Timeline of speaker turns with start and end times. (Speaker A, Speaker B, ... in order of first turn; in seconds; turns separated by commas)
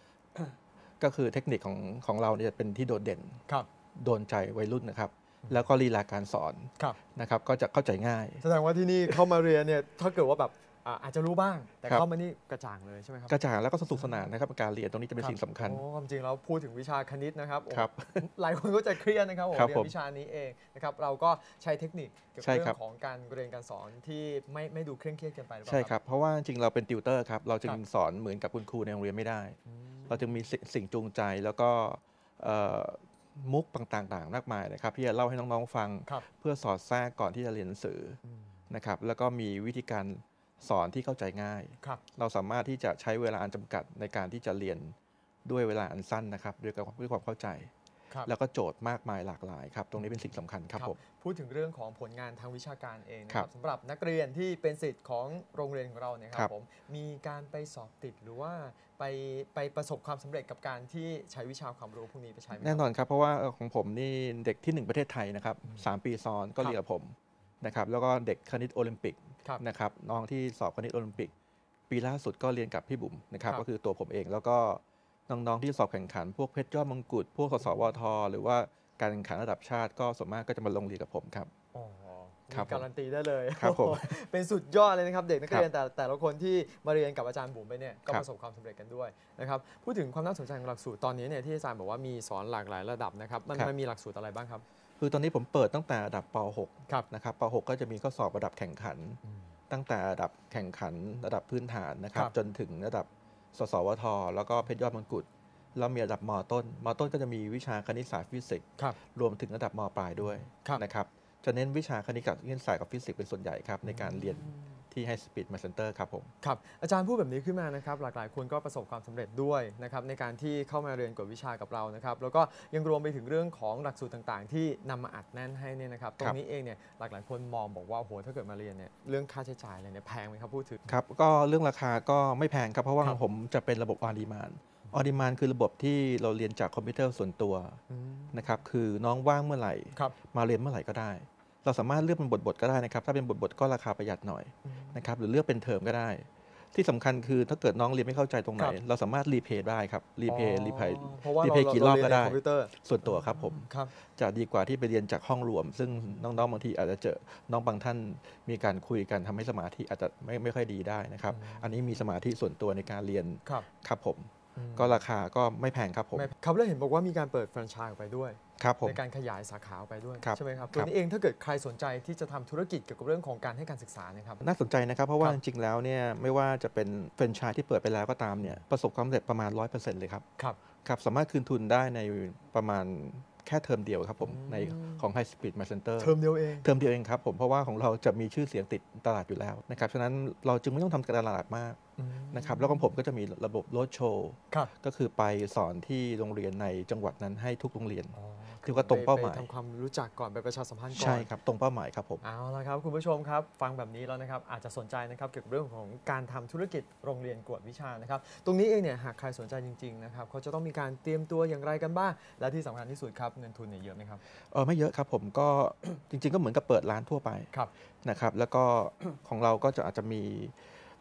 Speaker A: 0.3-3.4, Speaker A: 4.0-8.4, Speaker B: 8.4-13.4, Speaker A: 13.3-15.8, Speaker B: 15.2-25.9, Speaker A: 17.7-18.2, Speaker A: 19.5-19.9, Speaker A: 22.4-22.8, Speaker A: 25.7-29.6, Speaker B: 29.7-30.4, Speaker A: 30.1-38.2, Speaker B: 38.2-38.6, Speaker A: 38.7-47.7, Speaker A: 48.3-51.0, Speaker B: 50.8-62.8, Speaker A: 62.6-71.3, Speaker A: 71.9-81.5, Speaker B: 81.7-94.6, Speaker A: 82.5-82.9, Speaker A: 83.6-84.1, Speaker A: 95.0-116.3, Speaker B: 99.2-99.5, Speaker B: 110.2-110.8, Speaker B: 113.8-114.8, Speaker B: 116.4-130.9, Speaker A: 130.9-137.8, Speaker B: 137.9-138.5, Speaker A: 138.3-166.3, Speaker B: 144.7-145.0, Speaker B: 150.3-153.9, Speaker B: 161.3-161.8, Speaker B: 164.6-165.0, Speaker B: 166.2-174.4, Speaker A: 168.6-169.0, Speaker A: 170.2-170.9, Speaker A: 174.4-180.2, Speaker A: 180.8-191.8, Speaker B: 184.2-185.0, Speaker B: 186.0-186.7, Speaker B: 192.0-192.9, Speaker A: 192.3-199.5, Speaker B: 198.1-201.3, Speaker A: 200.9-202.2, Speaker B: 202.2-214.2, Speaker A: 214.5-217.5, Speaker A: 218.0-220.6